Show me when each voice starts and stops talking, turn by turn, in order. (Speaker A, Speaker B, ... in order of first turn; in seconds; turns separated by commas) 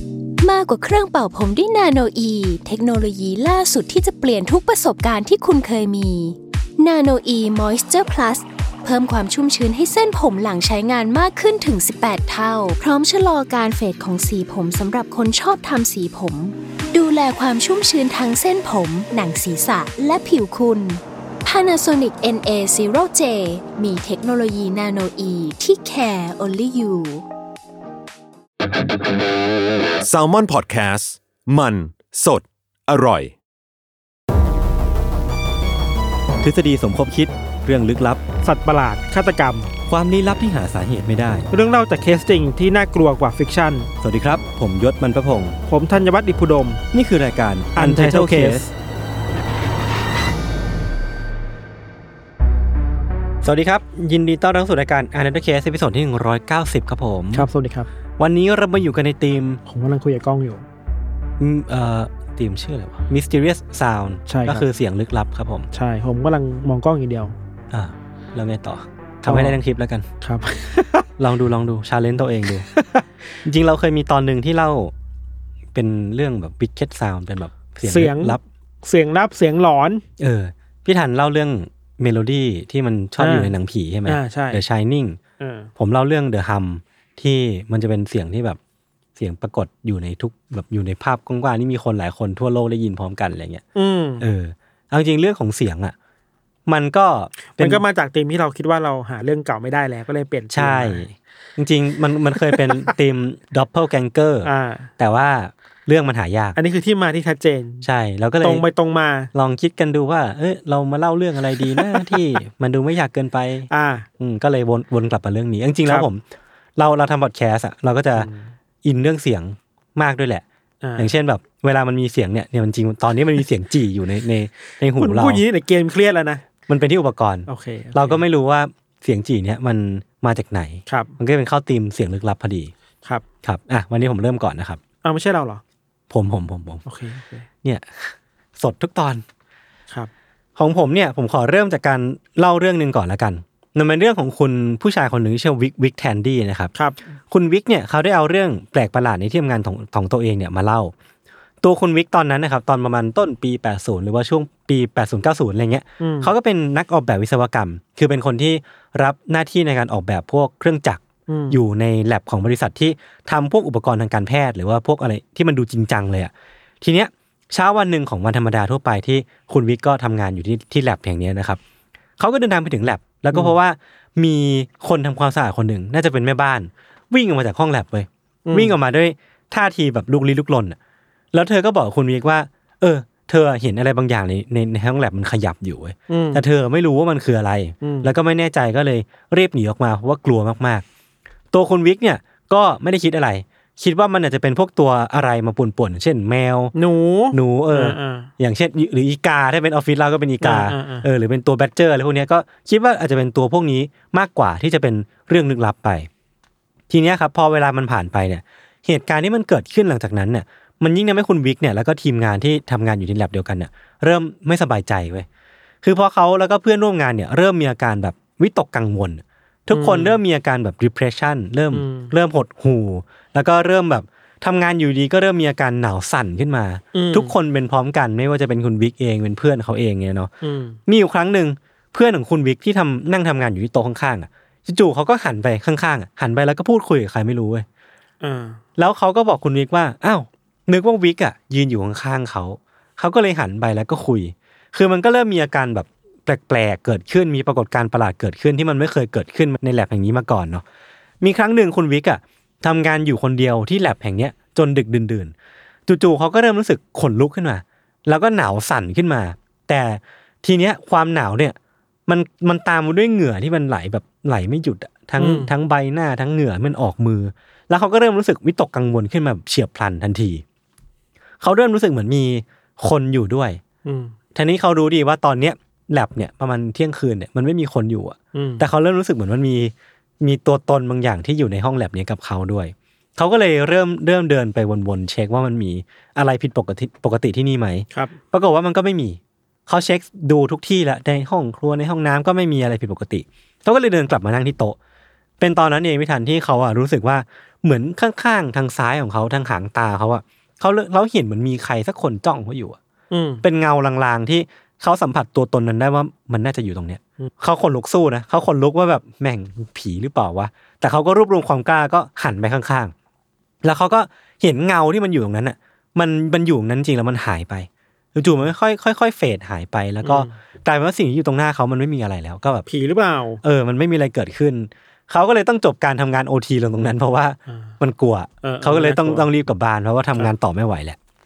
Speaker A: 0.4-27.2, Speaker B: 30.0-33.3, Speaker C: 36.4-38.2, Speaker D: 38.4-39.7, Speaker C: 39.9-41.5, Speaker D: 41.5-43.9, Speaker C: 44.0-45.5, Speaker D: 45.7-46.8, Speaker C: 46.9-48.6, Speaker D: 47.7-48.7, Speaker C: 53.4-57.5, Speaker D: 57.3-57.9, Speaker C: 58.2-59.6, Speaker D: 59.7-60.6, Speaker C: 61.4-65.7, Speaker D: 64.3-64.6, Speaker D: 65.7-67.3, Speaker C: 67.7-70.1, Speaker D: 69.2-69.6, Speaker D: 70.2-71.1, Speaker C: 71.2-72.7, Speaker D: 72.7-73.0, Speaker C: 73.4-74.9, Speaker C: 75.7-78.4, Speaker D: 77.9-80.0, Speaker C: 80.2-85.2, Speaker D: 83.2-83.5, Speaker D: 84.0-84.6, Speaker D: 85.4-85.7, Speaker C: 85.8-88.6, Speaker C: 89.2-93.6, Speaker D: 93.7-94.3, Speaker C: 94.2-95.9, Speaker C: 96.7-97.8, Speaker D: 97.5-101.0, Speaker C: 100.5-106.6, Speaker D: 102.5-102.8, Speaker D: 104.4-104.9, Speaker D: 106.5-107.9, Speaker C: 107.8-108.6, Speaker D: 108.4-109.3, Speaker C: 109.3-116.2, Speaker D: 111.6-112.2, Speaker D: 113.7-114.1, Speaker C: 116.8-118.3, Speaker D: 118.2-118.5, Speaker C: 118.8-120.4, Speaker D: 120.8-121.1, Speaker C: 121.0-125.4, Speaker D: 125.0-126.4, Speaker C: 126.7-132.7, Speaker D: 127.5-128.2, Speaker D: 130.9-131.1, Speaker C: 133.4-134.8, Speaker D: 135.0-135.6, Speaker C: 136.1-136.8, Speaker D: 136.9-137.5, Speaker C: 137.6-139.2, Speaker C: 140.6-146.7, Speaker C: 147.3-150.9, Speaker C: 151.6-171.6, Speaker D: 156.0-156.3, Speaker D: 161.3-161.6, Speaker C: 172.2-180.8, Speaker D: 178.5-178.8, Speaker C: 181.3-190.8, Speaker D: 186.1-186.4, Speaker D: 187.8-188.1, Speaker C: 191.5-196.8, Speaker D: 196.8-198.3, Speaker C: 197.3-206.1, Speaker D: 200.4-201.1, Speaker C: 206.9-215.3, Speaker C: 215.8-230.3, Speaker D: 219.7-220.2, Speaker D: 221.7-222.1, Speaker D: 226.9-227.3, Speaker D: 230.4-230.8, Speaker C: 230.9-237.7, Speaker D: 238.2-238.6, Speaker C: 238.8-250.6, Speaker C: 251.2-255.3, Speaker C: 255.9-261.6, Speaker C: 262.1-270.4, Speaker D: 265.2-265.5, Speaker C: 271.4-273.6, Speaker D: 273.9-274.1, Speaker C: 274.4-294.8, Speaker D: 278.3-278.6, Speaker C: 295.4-302.8, Speaker D: 303.1-303.4, Speaker C: 303.4-312.9, Speaker C: 313.6-322.7, Speaker D: 320.0-320.4, Speaker D: 322.7-323.4, Speaker C: 323.4-331.0, Speaker D: 328.4-329.3